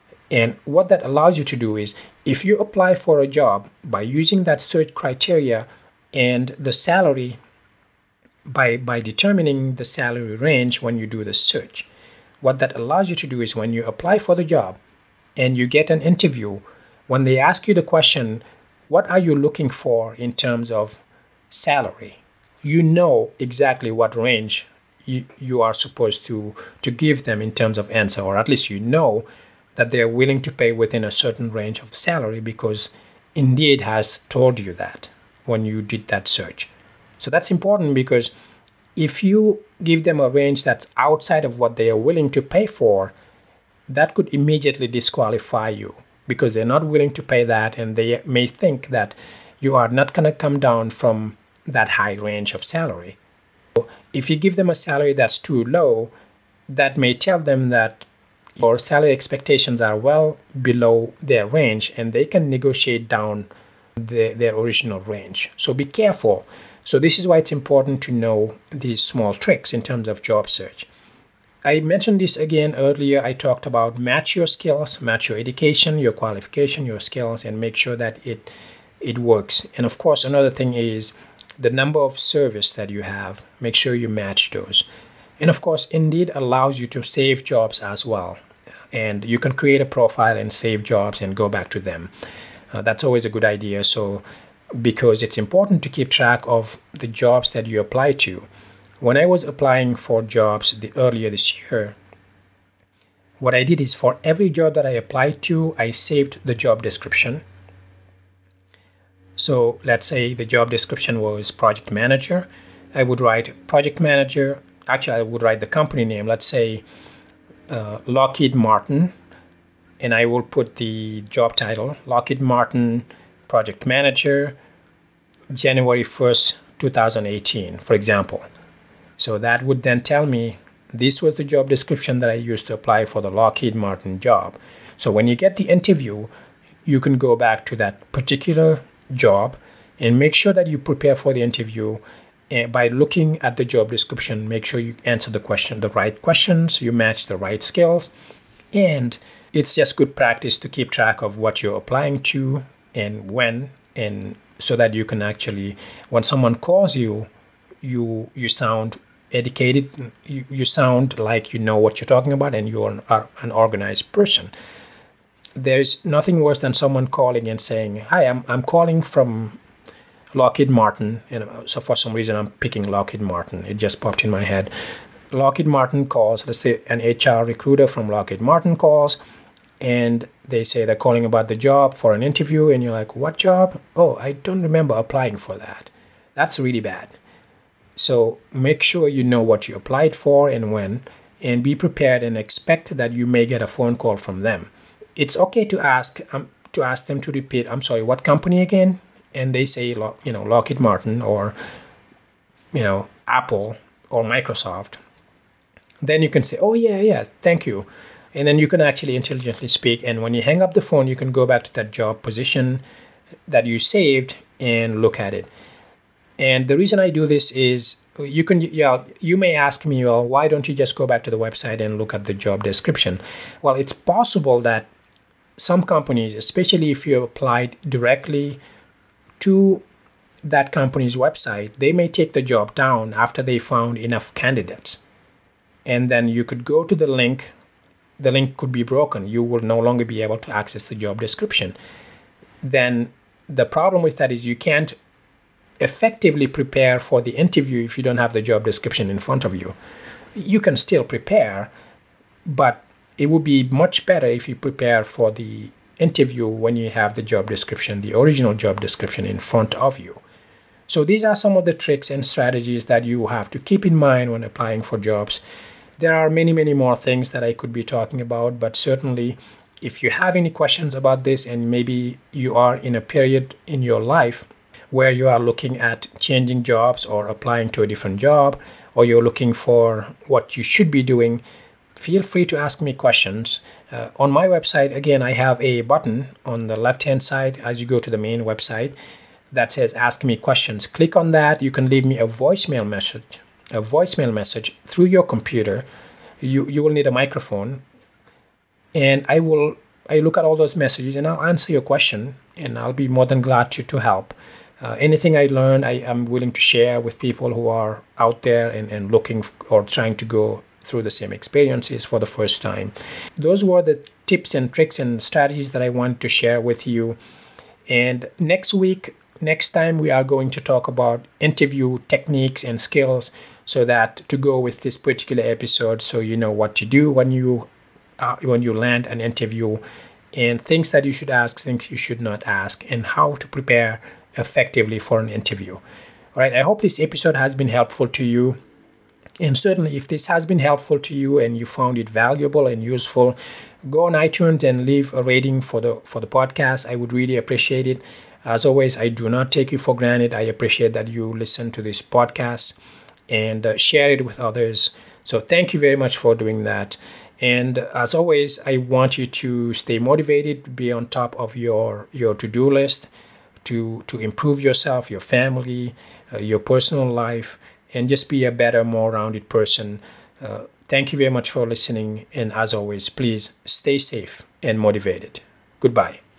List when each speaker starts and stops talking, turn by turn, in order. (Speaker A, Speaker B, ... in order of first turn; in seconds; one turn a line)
Speaker A: 0.3-7.4
Speaker A: 8.5-11.9
Speaker A: 12.4-14.8
Speaker A: 15.4-21.0
Speaker A: 21.5-38.3
Speaker A: 39.0-43.1
Speaker A: 43.9-53.2
Speaker A: 53.8-56.1
Speaker A: 56.7-58.1
Speaker A: 58.6-70.9
Speaker A: 71.7-84.9
Speaker A: 85.4-88.4
Speaker A: 88.9-92.1
Speaker A: 92.7-94.2
Speaker A: 94.8-98.5
Speaker A: 99.0-102.0
Speaker A: 103.4-107.4
Speaker A: 109.4-116.8
Speaker A: 117.7-119.1
Speaker A: 120.0-124.6
Speaker A: 125.5-128.5
Speaker A: 129.2-136.3
Speaker A: 136.9-148.1
Speaker A: 148.7-157.3
Speaker A: 157.8-164.5
Speaker A: 165.6-169.6
Speaker A: 170.3-174.7
Speaker A: 175.3-179.2
Speaker A: 179.8-187.2
Speaker A: 188.0-201.6
Speaker A: 202.7-205.0
Speaker A: 206.0-212.8
Speaker A: 213.5-215.5
Speaker A: 216.4-224.9
Speaker A: 225.6-228.6
Speaker A: 229.4-229.8
Speaker A: 230.4-235.0
Speaker A: 235.8-237.5
Speaker A: 238.2-241.8
Speaker A: 242.6-245.0
Speaker A: 245.8-249.8
Speaker A: 250.4-251.7
Speaker A: 252.5-260.2
Speaker A: 260.9-265.4
Speaker A: 266.0-281.4
Speaker A: 282.0-288.9
Speaker A: 289.5-295.9
Speaker A: 296.4-297.8
Speaker A: 298.9-317.2
Speaker A: 317.9-327.7
Speaker A: 328.2-329.8
Speaker A: 330.3-335.8
Speaker A: 336.4-338.6
Speaker A: 339.4-343.4
Speaker A: 343.9-352.8
Speaker A: 353.3-363.1
Speaker A: 363.6-376.2